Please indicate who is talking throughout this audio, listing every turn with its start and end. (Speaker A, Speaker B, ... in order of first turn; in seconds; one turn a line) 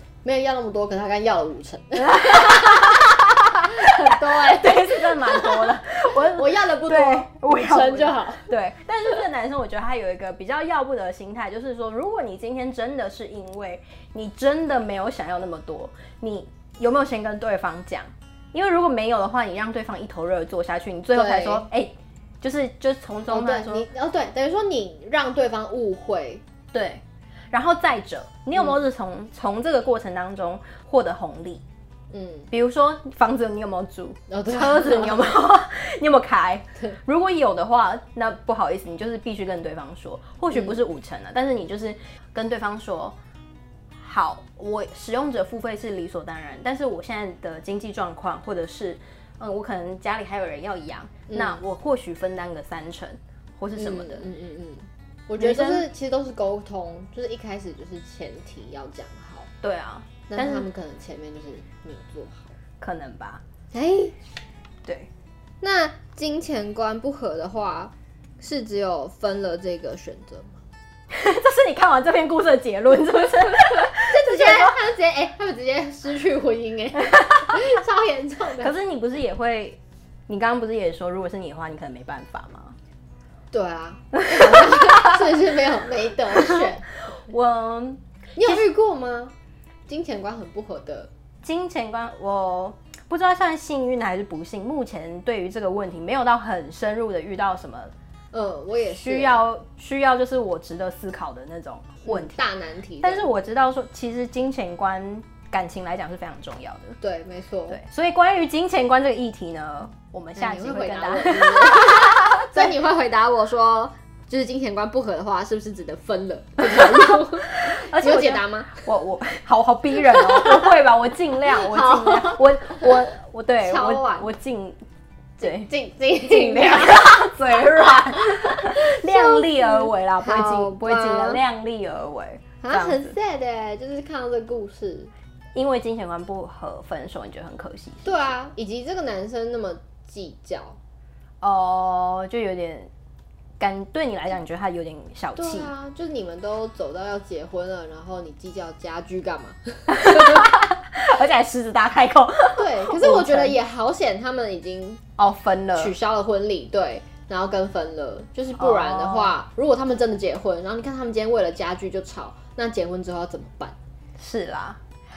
Speaker A: 0.2-8.5
Speaker B: 2.0-23.9
Speaker A: 21.1-21.7
Speaker A: 23.3-26.4
Speaker B: 26.7-31.6
Speaker A: 32.1-32.5
Speaker B: 32.5-43.2
Speaker A: 34.3-35.4
Speaker A: 40.5-40.8
Speaker B: 44.0-54.3
Speaker A: 51.3-51.6
Speaker A: 53.8-59.5
Speaker B: 55.4-55.9
Speaker B: 59.6-60.7
Speaker A: 60.3-62.5
Speaker B: 62.8-63.4
Speaker A: 63.7-64.2
Speaker A: 65.6-70.6
Speaker B: 71.1-74.8
Speaker A: 73.8-78.7
Speaker B: 77.0-77.6
Speaker B: 78.6-82.8
Speaker A: 83.5-86.8
Speaker B: 84.2-85.2
Speaker B: 87.1-88.6
Speaker A: 88.4-89.3
Speaker A: 89.9-91.1
Speaker B: 91.4-97.9
Speaker A: 98.3-99.4
Speaker B: 98.9-102.4
Speaker A: 102.0-103.3
Speaker B: 103.0-107.0
Speaker A: 107.0-107.8
Speaker B: 107.7-112.7
Speaker A: 110.4-118.8
Speaker B: 116.7-124.8
Speaker A: 120.1-120.7
Speaker A: 121.5-122.9
Speaker A: 123.6-124.3
Speaker B: 125.4-125.7
Speaker A: 125.4-127.3
Speaker B: 126.2-133.2
Speaker A: 128.3-131.4
Speaker A: 132.6-135.1
Speaker B: 135.6-138.2
Speaker A: 138.1-140.8
Speaker B: 141.4-142.9
Speaker B: 143.6-145.7
Speaker A: 145.4-150.6
Speaker B: 149.9-153.6
Speaker A: 152.6-155.0
Speaker B: 155.2-155.9
Speaker A: 155.8-163.8
Speaker B: 158.6-159.3
Speaker B: 164.2-164.8